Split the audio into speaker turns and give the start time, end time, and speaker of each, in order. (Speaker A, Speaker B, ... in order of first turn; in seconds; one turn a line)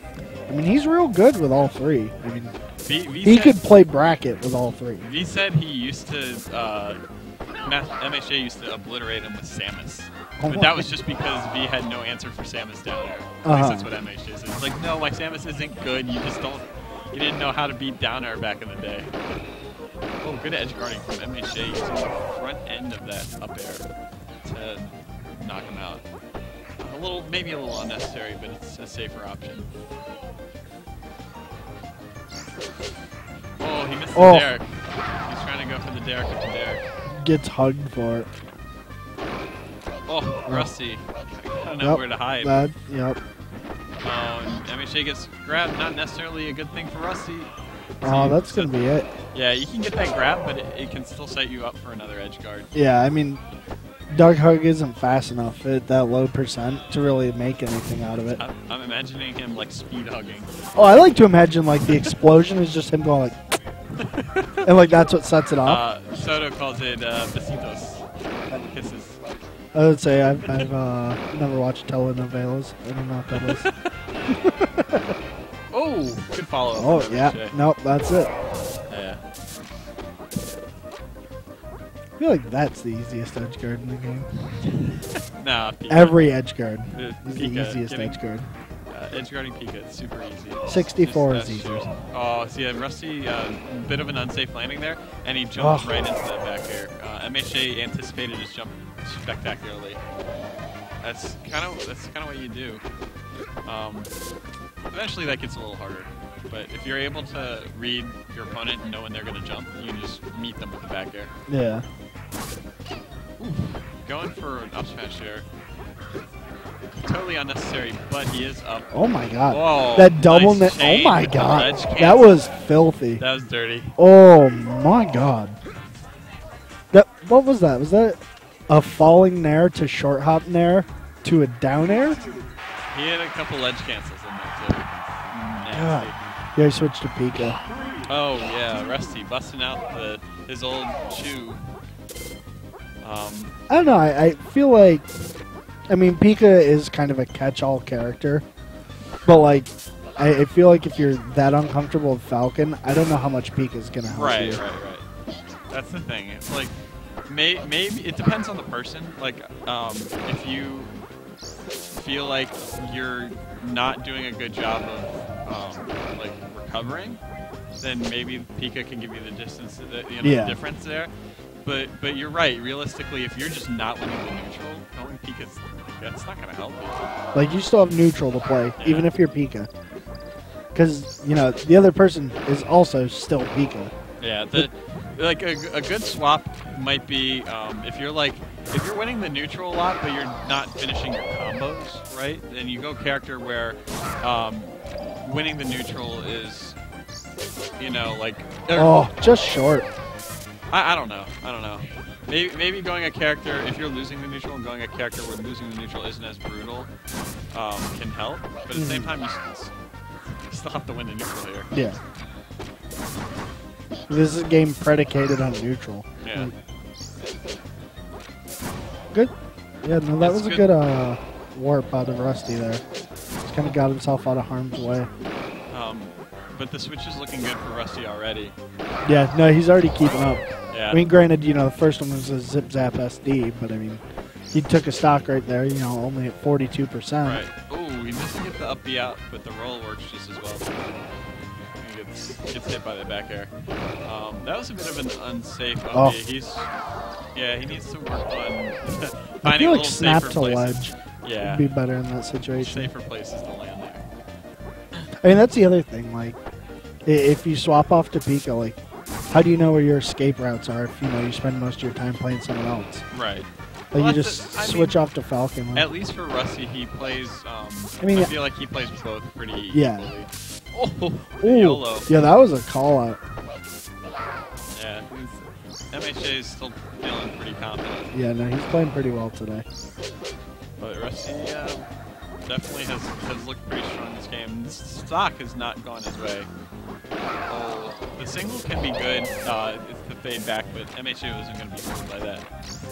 Speaker A: 0.5-2.5
Speaker B: 2.8-3.6
Speaker A: 3.2-5.1
Speaker B: 5.0-7.0
Speaker B: 7.6-19.4
Speaker A: 10.4-10.9
Speaker A: 13.4-13.9
Speaker B: 20.2-23.8
Speaker B: 24.4-26.0
Speaker B: 26.8-29.7
Speaker B: 33.6-36.8
Speaker A: 34.1-34.5
Speaker A: 37.2-38.3
Speaker B: 40.1-42.6
Speaker A: 41.8-43.2
Speaker B: 44.0-47.5
Speaker B: 48.0-48.7
Speaker A: 48.0-49.1
Speaker B: 49.3-52.7
Speaker A: 52.7-53.4
Speaker A: 54.1-58.4
Speaker B: 58.2-60.5
Speaker A: 60.7-63.4
Speaker B: 61.9-62.1
Speaker B: 64.0-64.6
Speaker A: 64.6-65.8
Speaker B: 65.6-69.2
Speaker A: 69.7-73.6
Speaker B: 70.4-70.7
Speaker B: 73.3-73.8
Speaker A: 74.5-75.0
Speaker B: 75.7-77.5
Speaker A: 76.8-78.3
Speaker B: 78.9-79.2
Speaker A: 82.2-84.3
Speaker B: 85.4-86.3
Speaker A: 85.9-88.5
Speaker B: 86.9-88.2
Speaker B: 88.9-100.0
Speaker A: 90.7-91.8
Speaker A: 95.6-95.9
Speaker B: 101.0-102.8
Speaker B: 103.7-104.1
Speaker B: 104.9-111.3
Speaker A: 111.5-111.8
Speaker B: 113.4-115.4
Speaker B: 117.0-118.9
Speaker A: 118.9-123.2
Speaker B: 119.5-122.4
Speaker B: 123.2-123.9
Speaker A: 124.0-125.6
Speaker A: 126.9-132.2
Speaker B: 132.9-136.2
Speaker A: 135.7-137.6
Speaker B: 138.1-141.6
Speaker B: 143.0-143.5
Speaker A: 143.7-145.1
Speaker A: 145.9-148.4
Speaker A: 149.2-154.6
Speaker B: 154.1-155.0
Speaker B: 155.7-156.7
Speaker B: 157.3-160.9
Speaker B: 161.9-167.2
Speaker B: 167.8-171.1
Speaker A: 170.2-170.6
Speaker B: 171.6-177.1
Speaker A: 177.3-179.7
Speaker B: 178.8-179.1
Speaker A: 180.7-183.9
Speaker B: 184.2-196.8
Speaker B: 197.8-199.1
Speaker A: 198.7-199.8
Speaker B: 200.7-206.9
Speaker B: 207.5-209.7
Speaker A: 208.7-209.1
Speaker B: 210.5-211.7
Speaker A: 211.7-212.0
Speaker A: 214.1-216.5
Speaker B: 216.2-216.5
Speaker A: 219.8-222.8
Speaker B: 220.2-220.7
Speaker A: 223.4-225.1
Speaker B: 225.7-228.5
Speaker A: 229.1-234.0
Speaker B: 230.7-231.1
Speaker A: 234.5-237.4
Speaker B: 237.2-240.9
Speaker B: 241.8-243.5
Speaker B: 244.0-246.7
Speaker A: 245.9-246.2
Speaker B: 247.3-251.7
Speaker A: 249.4-252.9
Speaker B: 252.6-254.0
Speaker A: 255.2-256.4
Speaker A: 257.1-258.8
Speaker A: 259.3-263.0
Speaker B: 263.1-265.0
Speaker A: 263.9-265.9
Speaker B: 265.7-272.1
Speaker A: 268.0-268.3
Speaker A: 269.7-270.1
Speaker A: 271.4-273.2
Speaker B: 274.8-278.1
Speaker A: 278.1-279.6
Speaker B: 280.8-281.9
Speaker B: 282.4-286.5
Speaker B: 287.5-292.4